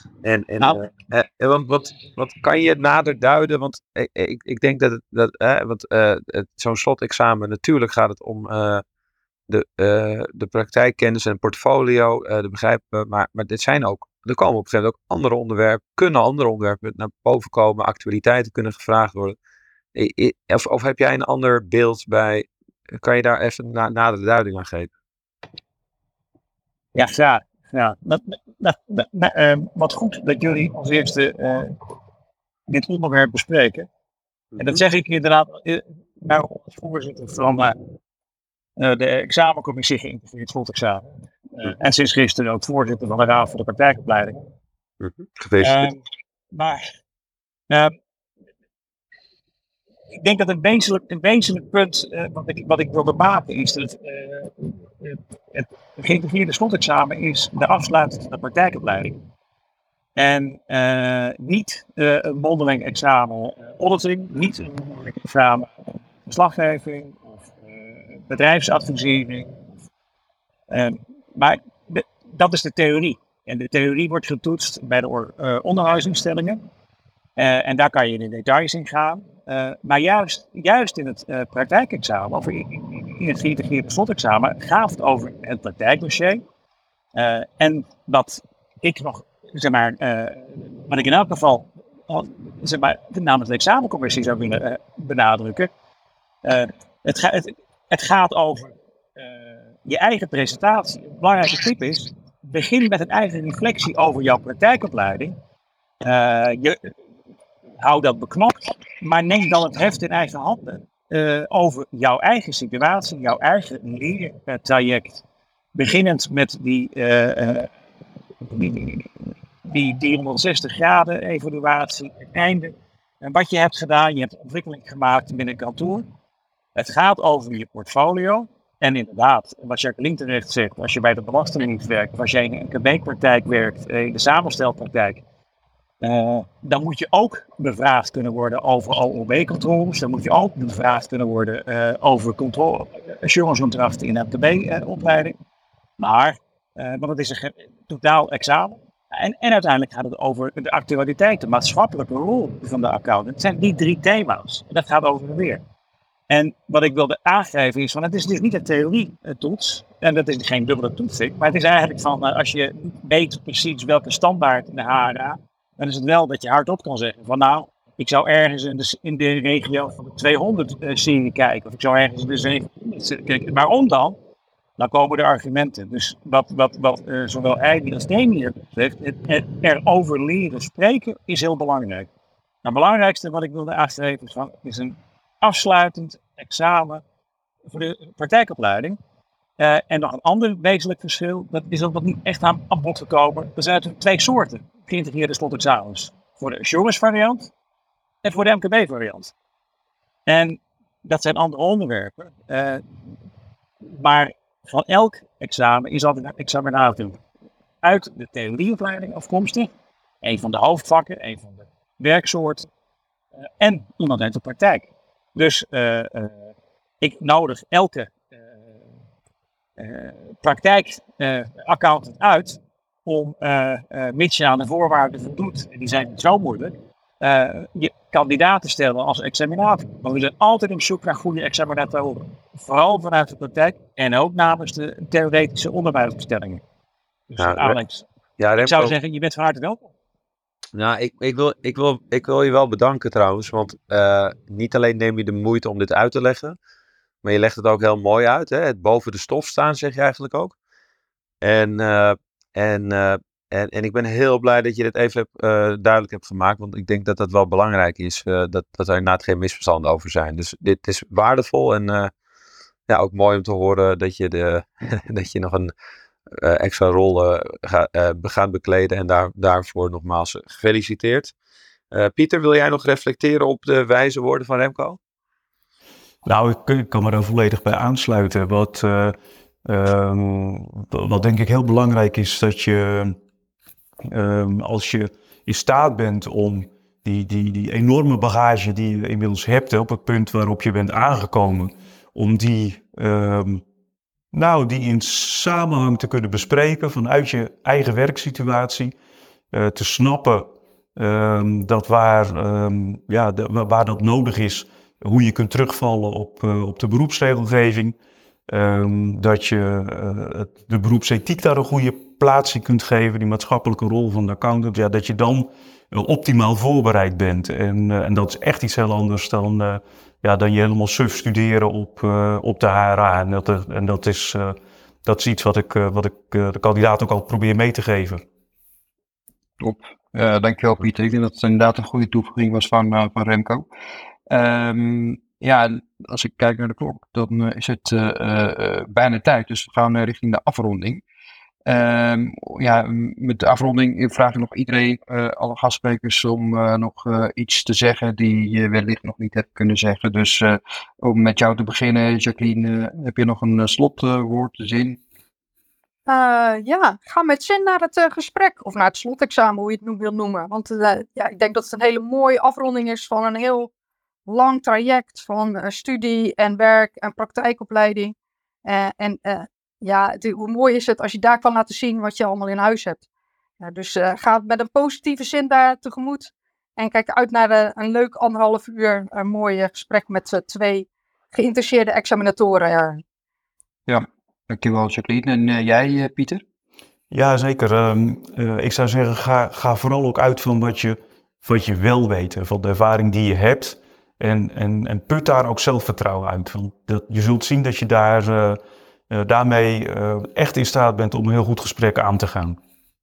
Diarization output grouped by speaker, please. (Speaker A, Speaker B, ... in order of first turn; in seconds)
Speaker A: 0.2-8.8, 9.5-19.4, 19.9-24.9, 34.6-34.8, 45.0-45.9, 237.4-237.8, 238.4-238.9, 240.8-246.6, 247.2-250.6, 251.4-262.1, 262.9-265.7, 266.3-271.3, 271.9-275.0
Speaker B: 0.6-0.9, 26.9-31.8, 32.7-33.9, 34.6-37.8, 38.8-44.4, 45.6-46.0, 46.5-46.8, 50.2-59.2, 60.2-65.7, 66.2-69.5, 70.7-76.6, 77.4-86.4, 87.2-95.7, 96.4-105.3, 106.0-106.8, 107.8-115.2, 115.8-117.7, 118.4-126.1, 126.8-135.2, 136.0-145.4, 146.0-155.6, 156.3-174.2, 174.8-182.1, 182.6-187.0, 187.7-189.0, 189.6-197.5, 198.2-199.3, 200.3-202.8, 203.8-207.2, 207.8-209.7, 210.2-212.7, 213.6-218.8, 219.8-236.6, 237.3-238.1, 238.6-239.9
Speaker C: 276.2-283.2, 284.1-293.6, 294.3-298.9, 299.5-307.9, 308.5-328.2, 387.1-402.6
Speaker D: 329.6-333.7, 334.3-341.0, 341.7-355.0, 383.9-386.4
Speaker E: 356.1-363.7, 364.3-373.0, 373.6-383.0